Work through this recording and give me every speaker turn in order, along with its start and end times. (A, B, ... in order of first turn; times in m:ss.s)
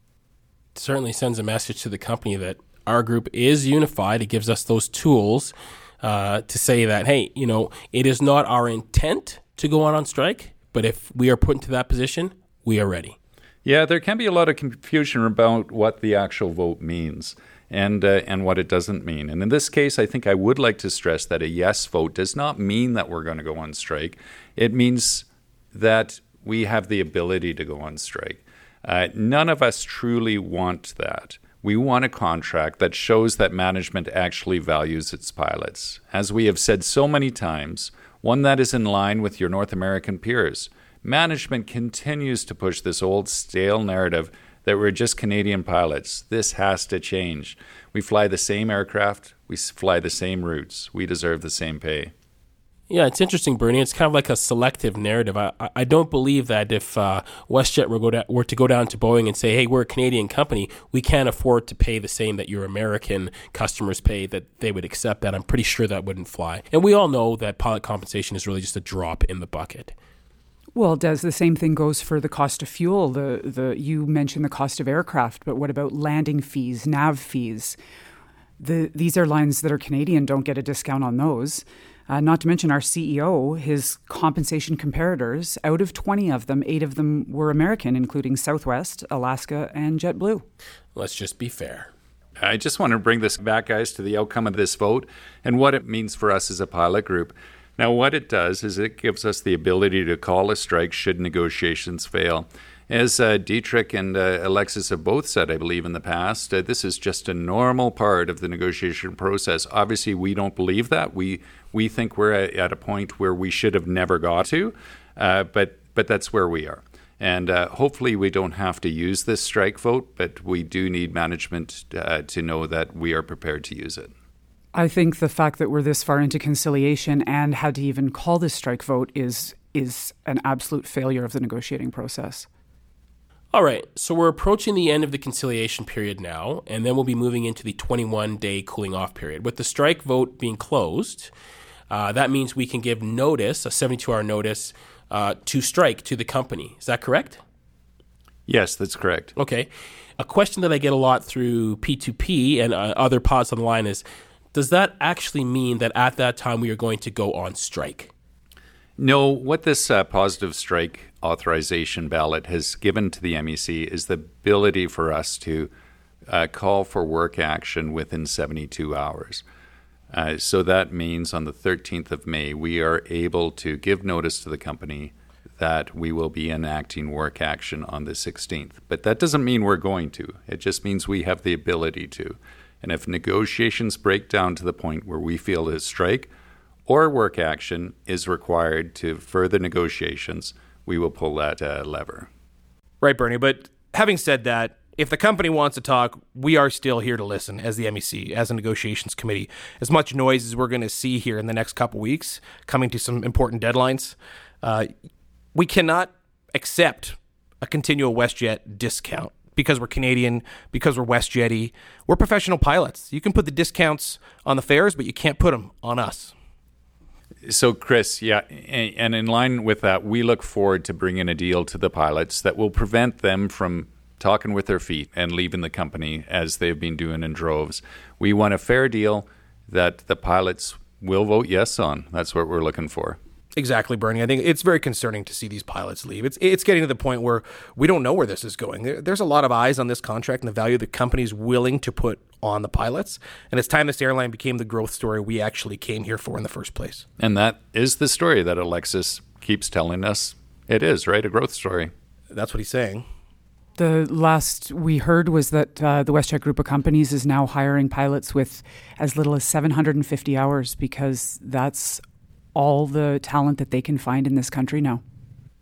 0:00.8-0:13.2 A
0:13.6-0:52.1 B
0:52.9-1:09.9 A
1:10.8-1:17.8 C
1:18.6-1:30.4 C
1:31.0-1:31.9 A
1:32.4-2:04.1 B
2:04.7-2:12.5 C
2:13.5-2:21.3 A
2:21.9-2:27.4 A
2:28.5-2:29.3 B
2:29.4-2:34.0 A
2:34.5-2:38.1 A
2:39.0-2:45.7 B
2:46.3-2:49.4 B
2:50.1-3:06.3 B
3:06.9-3:12.3 B
3:13.0-3:24.9 D
3:25.6-3:36.3 D
3:37.5-3:53.2 B
3:53.6-4:07.0 D
4:07.2-4:11.9 B
4:12.3-4:13.0 D
4:13.8-4:22.0 C
4:22.6-4:25.0 C